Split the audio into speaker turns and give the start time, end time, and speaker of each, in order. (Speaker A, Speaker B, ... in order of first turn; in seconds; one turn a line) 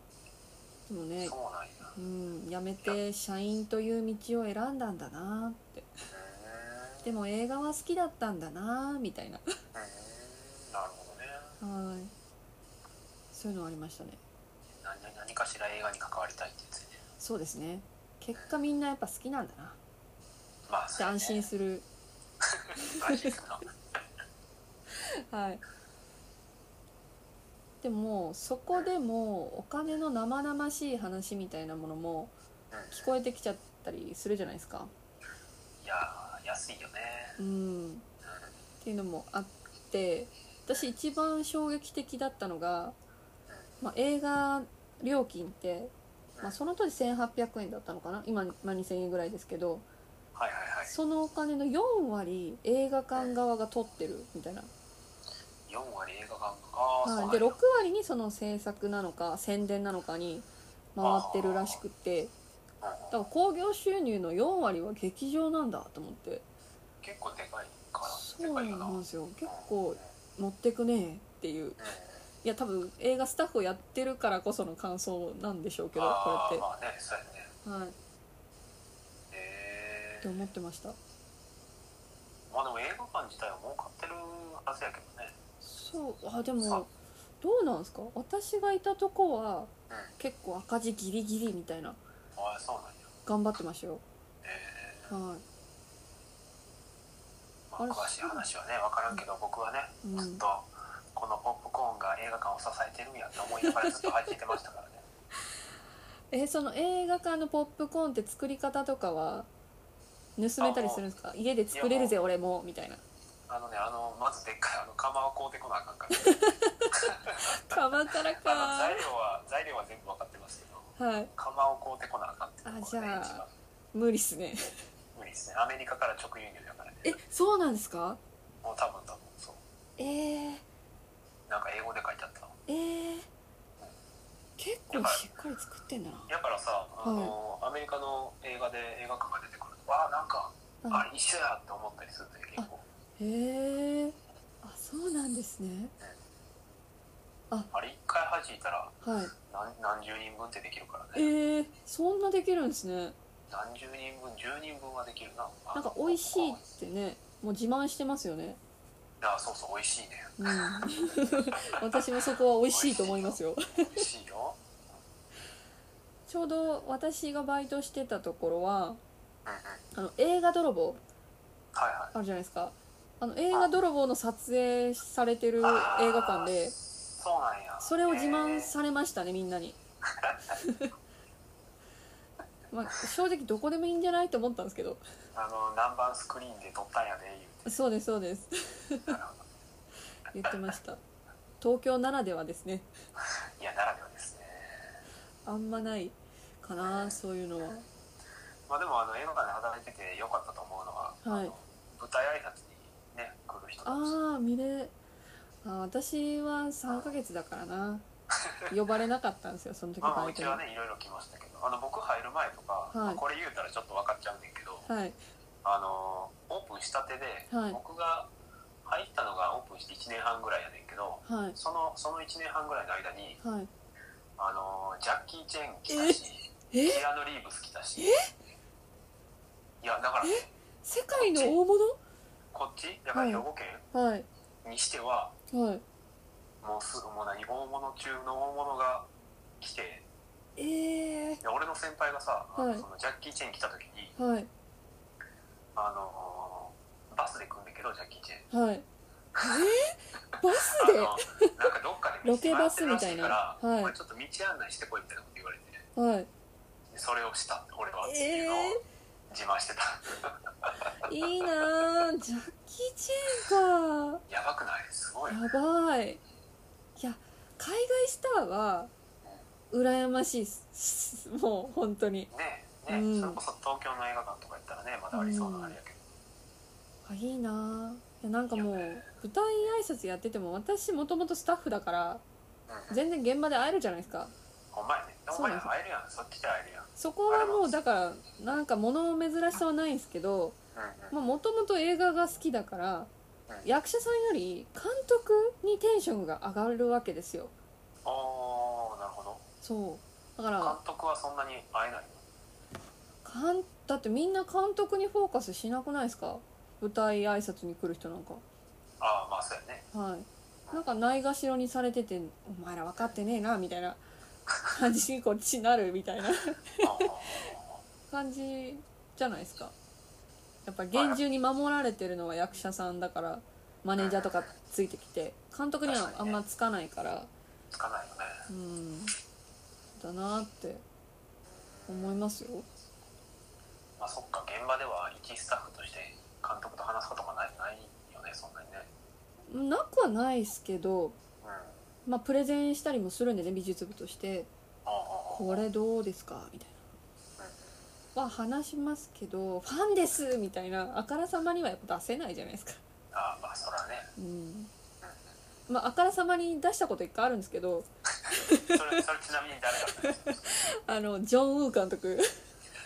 Speaker A: 0.9-1.4
Speaker B: 1.2-1.9
Speaker A: 1.9-5.9
Speaker B: 6.1-7.1
Speaker A: 7.0-9.4
Speaker B: 9.7-11.5
Speaker A: 11.6-12.1
Speaker A: 13.3-14.2
Speaker B: 14.7-17.0
Speaker A: 17.2-19.8
Speaker B: 20.7-21.5
Speaker A: 21.0-21.9
Speaker B: 22.4-23.7
Speaker A: 22.8-23.3
Speaker A: 25.0-25.6
Speaker A: 27.8-32.3
Speaker B: 32.7-33.1
Speaker A: 32.9-34.9
Speaker B: 35.8-37.4
Speaker A: 37.4-38.1
Speaker B: 38.2-38.5
Speaker A: 38.8-43.0
Speaker A: 43.8-45.9
Speaker A: 46.4-49.9
Speaker B: 50.4-50.9
Speaker A: 50.9-54.7
Speaker B: 55.7-57.6
Speaker A: 57.0-62.3
Speaker B: 61.0-61.8
Speaker B: 62.8-63.2
Speaker A: 63.1-66.4
Speaker B: 67.0-69.7
Speaker A: 68.0-71.9
Speaker B: 71.8-72.2
Speaker A: 72.4-76.7
Speaker B: 76.0-77.5
Speaker A: 77.7-78.0
Speaker B: 79.3-80.4
Speaker A: 80.2-81.0
Speaker B: 82.5-85.3
Speaker A: 85.6-86.9
Speaker A: 87.4-92.0
Speaker B: 92.4-93.1
Speaker A: 93.3-94.0
Speaker B: 94.4-95.2
Speaker A: 95.1-95.4
Speaker B: 97.7-105.0
Speaker A: 97.8-98.5
Speaker A: 100.0-100.4
Speaker A: 103.6-104.1
Speaker A: 106.3-109.5
Speaker A: 110.4-113.0
Speaker B: 110.6-111.0
Speaker B: 111.7-112.2
Speaker B: 113.5-116.4
Speaker A: 116.1-119.1
Speaker B: 116.9-123.5
Speaker A: 121.0-121.3
Speaker A: 122.7-124.8
Speaker B: 125.2-127.2
Speaker A: 127.0-128.2
Speaker B: 128.6-129.6
Speaker A: 130.0-130.6
Speaker B: 131.5-132.5
Speaker A: 132.7-133.3
Speaker A: 134.6-136.3
Speaker B: 134.9-135.2
Speaker B: 136.3-142.8
Speaker A: 137.0-137.3
Speaker A: 142.6-145.9
Speaker B: 147.7-151.3
Speaker A: 149.0-149.3
Speaker A: 151.1-153.2
Speaker B: 153.5-156.6
Speaker A: 155.8-158.6
Speaker B: 159.2-160.8
Speaker A: 160.4-164.1
Speaker B: 161.4-164.6
Speaker A: 166.3-169.0
Speaker B: 169.5-169.8
Speaker A: 169.9-171.0
Speaker B: 171.7-172.1
Speaker A: 172.1-176.8
Speaker B: 175.6-178.7
Speaker A: 177.8-179.8
Speaker B: 180.1-180.4
Speaker A: 180.5-180.9
Speaker A: 182.7-185.0
Speaker B: 185.3-187.8
Speaker A: 187.7-189.2
Speaker B: 189.1-189.5
Speaker A: 190.3-191.0
Speaker A: 191.6-192.9
Speaker B: 193.6-195.0
Speaker A: 195.5-197.8
Speaker B: 196.8-197.2
Speaker B: 198.7-204.2
Speaker A: 201.2-201.5
Speaker A: 203.8-204.9
Speaker A: 205.6-208.0
Speaker B: 208.4-208.7
Speaker A: 208.7-210.6
Speaker B: 210.0-214.9
Speaker A: 212.9-213.2
Speaker A: 214.9-215.2
Speaker B: 215.6-218.3
Speaker A: 217.5-217.8
Speaker B: 218.8-223.4
Speaker A: 221.3-221.6
Speaker A: 223.4-223.7
Speaker B: 224.4-228.2
Speaker A: 225.9-226.2
Speaker A: 226.7-227.0
Speaker A: 228.0-228.3
Speaker B: 229.8-230.5
Speaker A: 230.2-232.0
Speaker B: 231.1-231.6
Speaker B: 232.5-233.9
Speaker A: 233.1-234.3
Speaker B: 234.6-235.3
Speaker A: 235.5-235.8
Speaker B: 236.6-239.1
Speaker B: 239.6-240.1
Speaker A: 240.6-241.4
Speaker B: 241.4-244.1
Speaker A: 242.6-242.8
Speaker A: 244.2-244.5
Speaker B: 245.8-248.5
Speaker A: 248.5-248.8
Speaker B: 249.4-249.7
Speaker A: 249.4-251.6
Speaker B: 250.6-255.9
Speaker A: 252.2-253.9
Speaker A: 256.0-256.3
Speaker B: 256.9-258.8
Speaker A: 258.0-258.8
Speaker B: 259.3-260.9
Speaker A: 261.0-264.2
Speaker B: 264.3-265.4
Speaker A: 265.3-266.2
Speaker A: 267.0-268.9
Speaker A: 269.7-272.3
Speaker B: 272.3-276.1
Speaker A: 272.9-273.4
Speaker A: 275.1-275.8
Speaker A: 277.1-282.2
Speaker B: 278.5-279.1
Speaker B: 282.7-283.0
Speaker A: 282.9-284.3
Speaker B: 284.7-287.8
Speaker A: 285.3-285.7
Speaker A: 287.0-290.6
Speaker B: 290.8-291.1
Speaker A: 291.1-293.1
Speaker A: 293.6-297.5
Speaker B: 298.1-299.4
Speaker A: 299.6-300.8
Speaker B: 300.6-302.2
Speaker A: 303.2-308.4
Speaker B: 309.0-309.9
Speaker A: 309.9-314.0
Speaker A: 314.6-317.4
Speaker B: 316.8-317.8
Speaker A: 318.1-319.7
Speaker A: 320.7-327.3
Speaker B: 320.9-321.2
Speaker B: 324.0-324.5
Speaker B: 325.9-326.4
Speaker B: 327.7-328.5
Speaker A: 328.5-329.1
Speaker A: 330.0-330.8
Speaker B: 331.8-332.2
Speaker A: 331.9-332.7
Speaker B: 334.0-338.9
Speaker A: 339.5-341.2
Speaker B: 341.4-341.8
Speaker A: 342.1-344.5
Speaker B: 344.9-345.6
Speaker A: 345.3-346.8
Speaker B: 347.4-347.8
Speaker A: 348.1-352.8
Speaker B: 353.1-354.1
Speaker A: 354.2-354.7
Speaker A: 355.7-359.0
Speaker B: 358.3-360.5
Speaker A: 359.8-362.4